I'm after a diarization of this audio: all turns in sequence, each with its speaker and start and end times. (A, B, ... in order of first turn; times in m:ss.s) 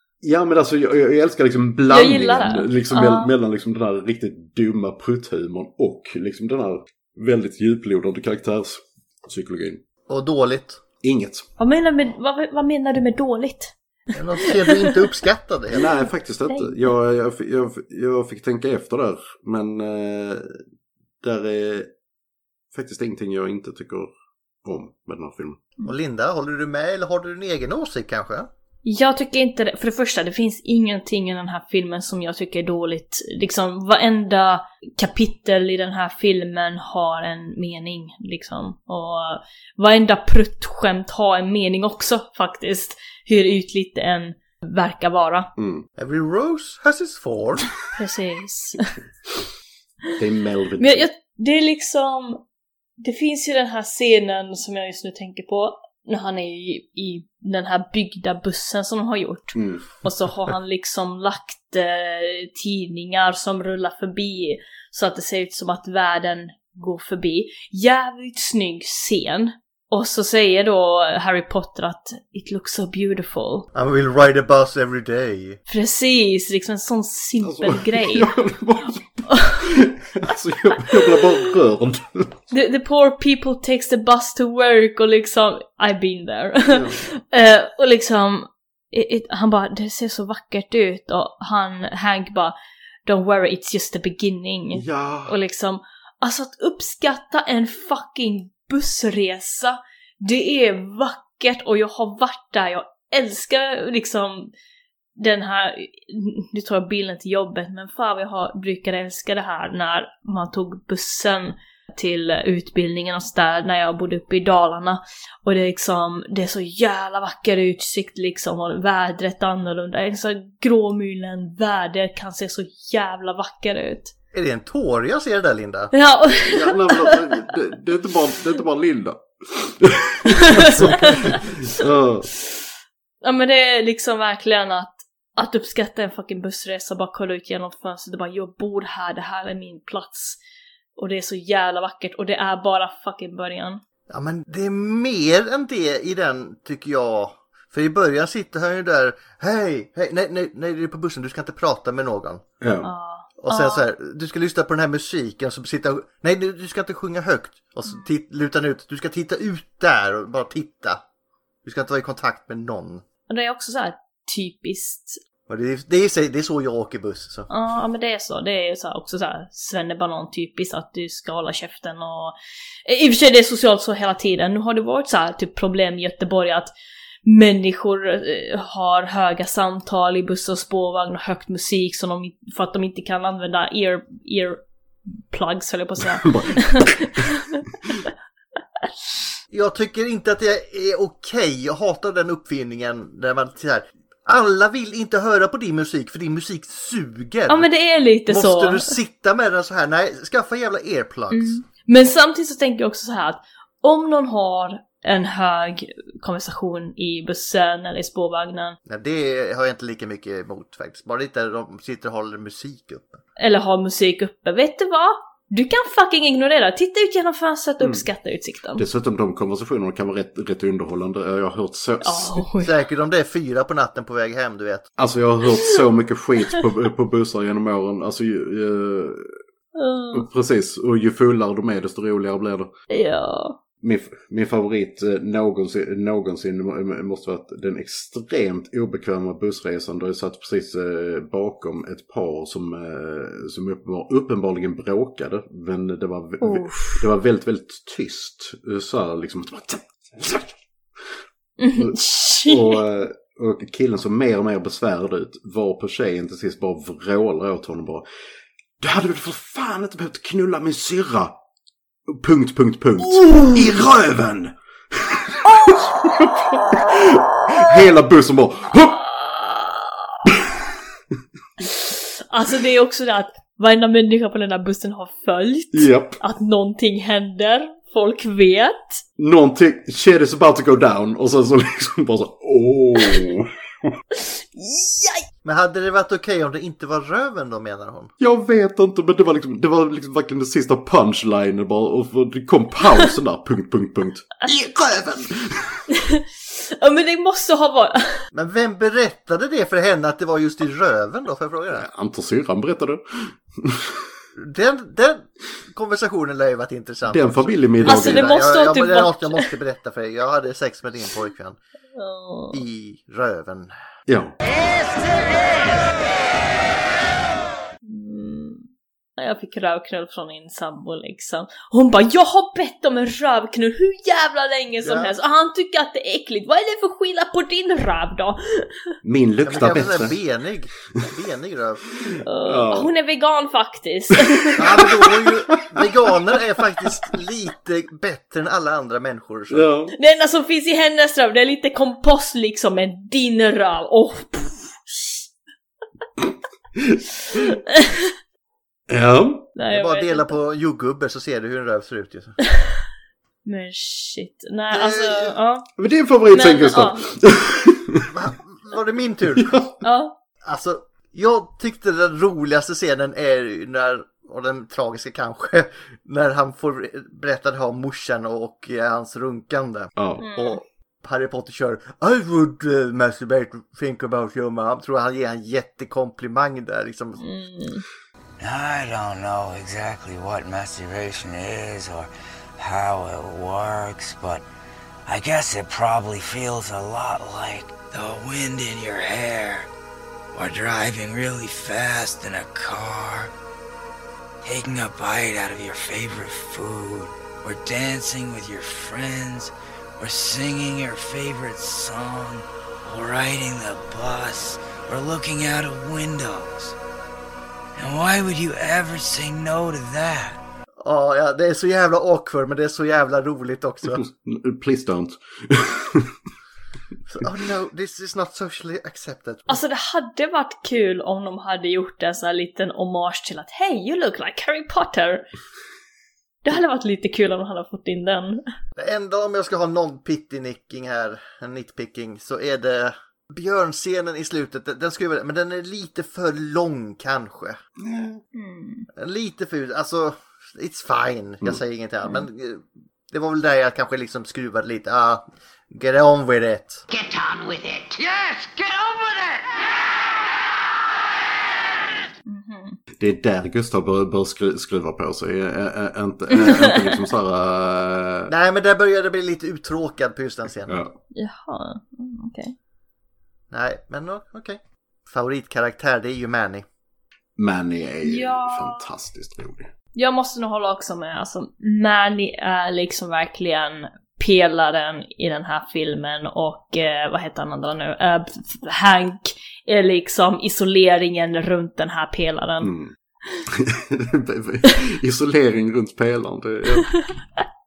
0:00.2-0:09.8 A
0:01.9-0:03.3 B
0:10.1-0:10.8 C
0:11.0-0:11.5 A
0:11.6-0:13.7 B
0:14.1-0:15.9 C
0:14.4-0:15.0 B
0:15.7-0:20.6 A
0:16.5-0:16.7 B
0:21.2-0:21.9 A
0:22.7-0:24.1 A
0:24.6-0:25.6 A
0:25.8-0:28.5 C
0:28.8-0:45.5 B
0:45.6-0:45.8 A
0:46.0-0:47.7 C
0:48.0-0:48.8 B
0:50.2-0:51.1 A
0:50.8-0:52.4 B
0:53.0-1:13.7 B
0:59.5-1:00.5 A
1:13.7-1:15.6 C
1:15.7-1:18.3 B
1:17.4-1:22.4 A
1:19.3-1:19.6 B
1:22.5-1:32.5 B
1:26.7-1:27.0 A
1:33.0-1:44.5 B
1:34.7-1:35.4 A
1:45.2-2:04.1 B
2:04.3-2:05.9 C
2:05.9-2:07.4 B
2:06.5-2:12.3 A
2:10.3-2:11.4 B
2:13.2-2:20.4 B
2:21.0-2:23.8 B
2:24.1-2:32.4 C
2:32.6-2:32.9 A
2:32.8-2:33.8 B
2:33.4-2:41.0 C
2:41.6-2:43.0 C
2:43.3-2:45.2 B
2:45.5-2:47.5 C
2:47.5-2:52.3 B
2:52.8-2:56.7 B
2:57.2-3:04.6 B
3:05.3-3:07.6 B
3:06.2-3:07.3 A
3:09.5-3:17.7 C
3:17.5-3:18.9 B
3:18.3-3:21.6 C
3:21.3-3:28.8 B
3:28.9-3:33.2 C
3:33.4-3:38.8 B
3:38.8-3:42.4 A
3:42.0-3:42.7 B
3:42.6-3:44.9 C
3:45.0-3:49.3 A
3:49.8-3:50.2 B
3:50.1-3:52.7 A
3:52.9-3:53.6 B
3:53.8-4:10.6 A
4:06.4-4:07.0 B
4:11.6-4:12.8 B
4:11.8-4:18.0 A
4:18.8-4:21.3 A
4:22.1-4:29.1 A
4:29.3-4:29.7 B
4:31.7-4:39.0 B
4:35.7-4:36.2 A
4:39.2-4:43.9 A
4:44.5-4:45.2 B
4:45.4-4:48.1 C
4:48.2-4:55.8 A
4:55.9-4:58.1 B
4:58.3-5:01.9 C
5:01.7-5:04.0 A
5:04.4-5:11.6 C
5:07.1-5:08.3 A
5:07.8-5:09.5 B
5:12.0-5:12.6 B
5:12.5-5:13.7 C
5:14.1-5:14.4 A
5:17.8-5:28.7 B
5:24.8-5:25.1 C
5:29.0-5:30.1 A
5:29.4-5:31.8 C
5:32.0-5:32.9 A
5:32.2-5:34.6 B
5:34.5-5:35.8 A
5:34.6-5:39.7 C
5:39.5-5:39.9 A
5:40.0-5:45.2 B
5:46.8-5:47.0 A
5:47.3-5:48.1 B
5:48.9-5:49.5 A
5:49.6-5:50.3 B
5:49.7-5:52.4 C
5:53.4-5:55.6 B
5:54.7-5:55.3 C
5:55.8-5:58.1 A
5:56.3-5:57.0 B
5:58.1-5:59.6 C
5:59.4-5:59.7 A
5:59.8-6:00.2 B
6:00.4-6:17.2 C
6:10.0-6:10.2 A
6:10.2-6:10.6 B
6:17.2-6:17.8 B
6:18.4-6:24.4 D
6:25.1-6:29.7 D
6:30.3-6:33.3 D
6:34.4-6:46.7 D
6:47.8-6:50.4 D
6:50.8-6:54.0 C
6:53.9-6:56.1 A
6:57.1-6:59.6 C
6:59.5-7:05.2 B
7:06.4-7:08.4 B
7:08.8-7:17.6 C
7:17.8-7:18.2 A
7:18.3-7:18.9 B
7:18.9-7:26.8 C
7:26.9-7:29.5 E
7:32.3-7:32.8 B
7:33.0-7:38.3 A
7:36.4-7:36.7 B
7:38.3-7:40.8 C
7:40.7-7:41.0 A
7:41.1-7:42.5 B
7:43.5-7:46.6 C
7:47.4-7:49.7 A
7:48.0-7:48.8 B
7:49.9-8:02.7 B
8:02.6-8:02.9 A
8:03.5-8:07.0 A